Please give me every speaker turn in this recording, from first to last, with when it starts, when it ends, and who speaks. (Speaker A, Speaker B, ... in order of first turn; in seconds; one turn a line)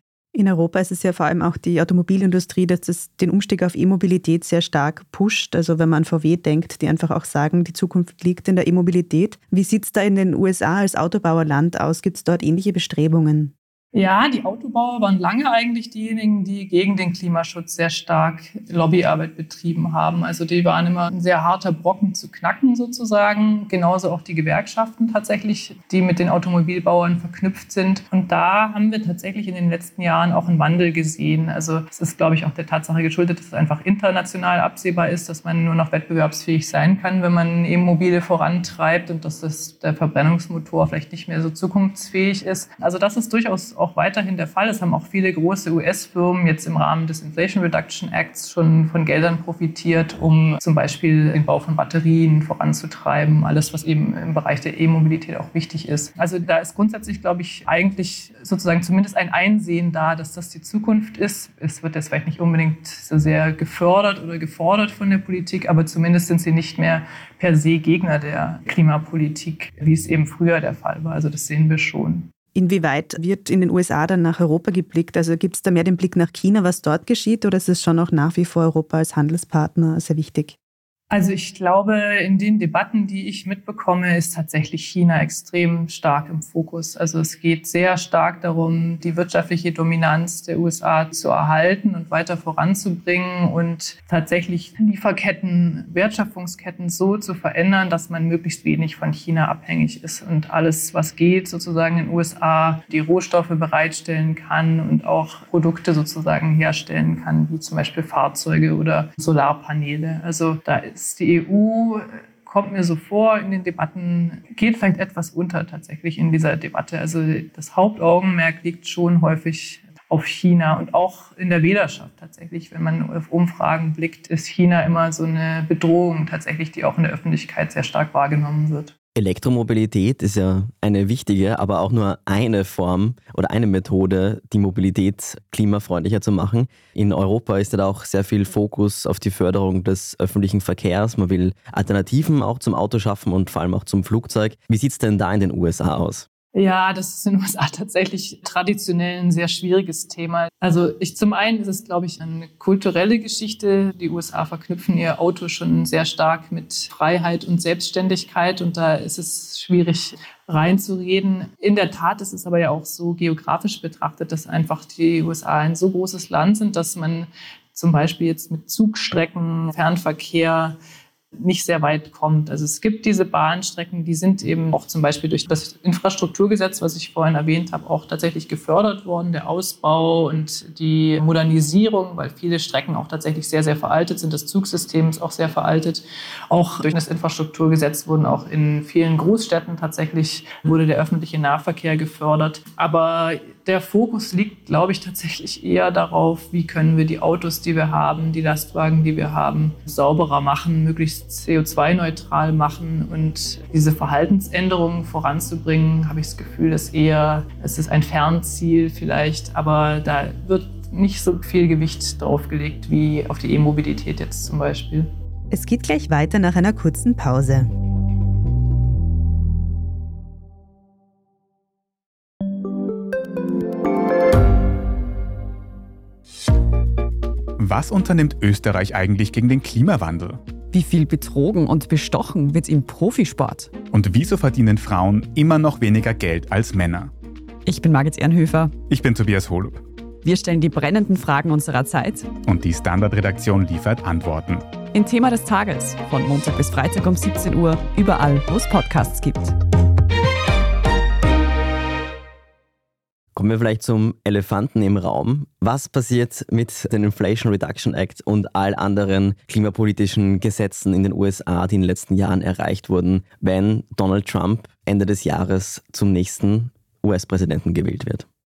Speaker A: 0.3-13.5
Speaker B: 13.9-72.3
Speaker A: 72.5-80.5
Speaker B: 81.1-128.9
Speaker C: 129.2-146.3
Speaker B: 146.5-170.8
Speaker B: 171.4-215.1
Speaker A: 215.5-217.7
Speaker D: 227.6-230.4
Speaker E: 230.7-233.7
Speaker D: 233.9-237.1
Speaker E: 237.7-238.8
Speaker D: 238.9-239.8
Speaker E: 240.2-242.3
Speaker D: 242.4-244.7
Speaker E: 244.9-249.6
Speaker C: 253.3-268.3